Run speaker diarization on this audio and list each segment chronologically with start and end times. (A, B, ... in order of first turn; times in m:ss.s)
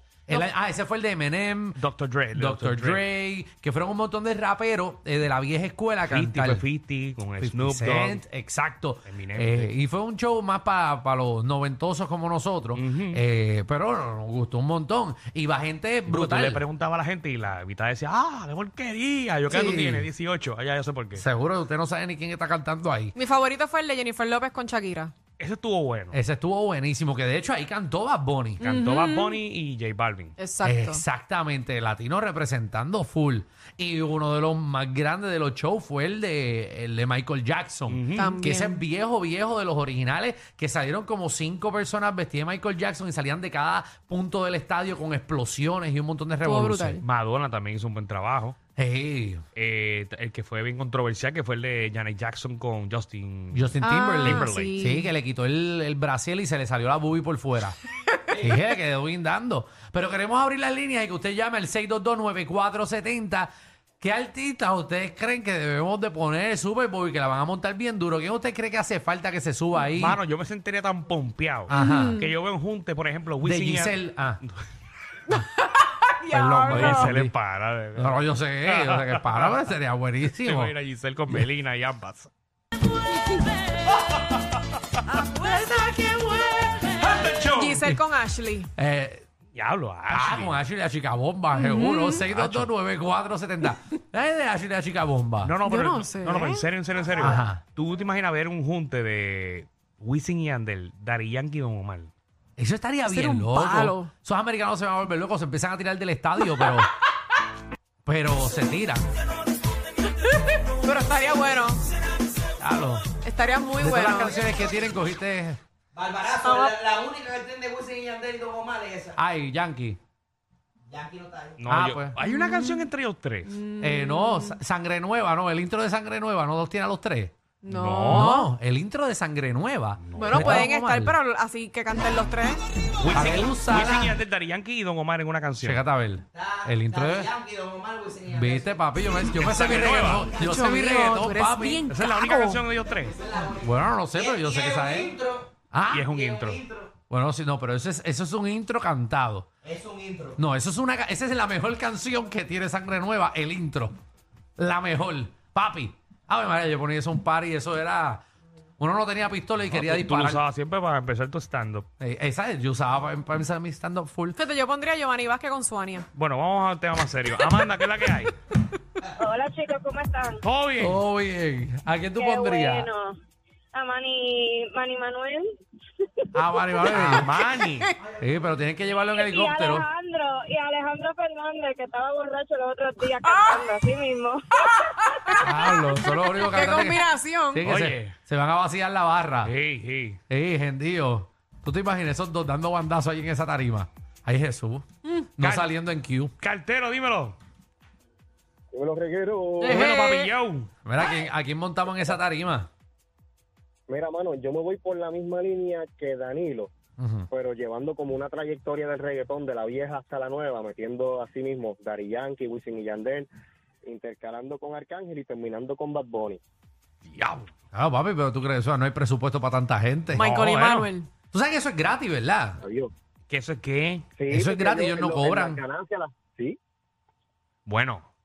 0:00.3-0:06.7 A
0:01.8-0:03.0 B
0:06.1-0:08.2 B
0:07.4-0:16.6 A
0:09.0-0:09.7 B
0:12.7-0:13.2 B
0:16.1-0:21.2 B
0:19.5-0:20.1 A
0:21.2-0:23.2 A
0:23.2-0:25.1 C
0:25.4-0:26.2 B
0:26.1-0:28.7 A
0:28.6-0:29.4 C
0:28.6-0:30.4 B
0:30.4-0:31.0 C
0:30.6-0:47.0 A
0:37.9-0:38.3 B
0:38.1-0:38.8 C
0:46.4-0:47.0 C
0:47.0-0:48.6 B
0:48.8-0:49.4 A
0:49.6-0:54.8 B
0:53.5-0:57.8 A
0:53.8-0:55.1 C
0:58.3-1:10.2 A
1:10.0-1:14.6 B
1:11.7-1:12.2 A
1:11.7-1:12.3 C
1:13.4-1:14.4 A
1:15.3-1:17.2 C
1:16.3-1:17.3 A
1:16.7-1:19.5 B
1:18.0-1:20.8 A
1:20.4-1:22.3 B
1:25.2-1:26.0 C
1:25.4-1:27.0 A
1:26.9-1:27.8 B
1:27.5-1:28.7 C
1:28.8-1:29.2 A
1:29.5-1:30.6 B
1:30.1-1:35.5 A
1:31.5-1:32.3 C
1:32.3-1:32.7 B
1:35.4-1:42.1 B
1:35.7-1:36.7 C
1:37.2-1:37.6 A
1:42.6-1:46.9 A
1:43.0-1:44.1 C
1:48.0-1:49.0 A
1:50.2-1:51.8 C
1:52.6-1:53.1 A
1:53.2-1:54.4 C
1:53.8-1:55.6 A
1:55.9-1:59.2 D
1:56.4-1:56.8 C
1:59.2-2:00.0 A
2:00.9-2:01.6 D
2:01.6-2:03.6 B
2:01.7-2:02.2 A
2:02.2-2:02.9 C
2:03.5-2:04.6 C
2:03.8-2:07.3 A
2:07.6-2:08.5 C
2:07.7-2:08.4 B
2:08.1-2:11.2 A
2:10.0-2:10.6 B
2:10.2-2:12.6 C
2:13.0-2:15.8 B
2:13.1-2:14.2 A
2:15.6-2:17.3 A
2:16.3-2:18.7 D
2:18.3-2:21.8 A
2:19.4-2:20.4 B
2:20.3-2:22.6 C
2:21.9-2:23.2 B
2:22.9-2:27.0 D
2:23.6-2:25.2 A
2:25.7-2:26.1 A
2:25.9-2:26.6 B
2:27.1-2:29.5 A
2:29.6-2:30.4 D
2:30.4-2:34.0 A
2:34.6-2:38.3 A
2:38.8-2:40.4 A
2:39.7-2:41.9 B
2:42.0-2:44.4 A
2:44.4-2:46.1 C
2:46.2-2:48.3 B
2:49.2-2:50.4 E
2:50.4-2:51.0 B
2:50.8-2:52.9 A
2:52.2-2:53.2 E
2:53.7-2:55.4 E
2:56.4-2:57.3 A
2:56.9-2:57.9 B
2:57.6-2:57.9 C
2:58.2-2:59.8 A
2:59.1-3:05.5 E
3:03.2-3:03.8 C
3:04.6-3:07.6 C
3:05.4-3:09.5 A
3:07.6-3:08.2 B
3:09.4-3:10.2 B
3:10.3-3:14.9 A
3:15.4-3:16.3 A
3:15.4-3:15.7 B
3:16.4-3:17.4 B
3:18.7-3:19.9 F
3:19.6-3:20.7 B
3:19.7-3:20.3 C
3:20.8-3:22.7 A
3:23.9-3:26.7 F
3:27.0-3:27.3 A
3:27.3-3:33.3 F
3:33.8-3:36.4 F
3:37.0-3:37.5 B
3:37.7-3:40.3 A
3:40.2-3:40.9 B
3:40.2-3:41.1 C
3:41.3-3:42.6 A
3:42.6-3:42.9 F
3:43.3-3:44.1 B
3:44.2-3:46.6 F
3:44.3-3:45.6 A
3:47.7-3:48.1 B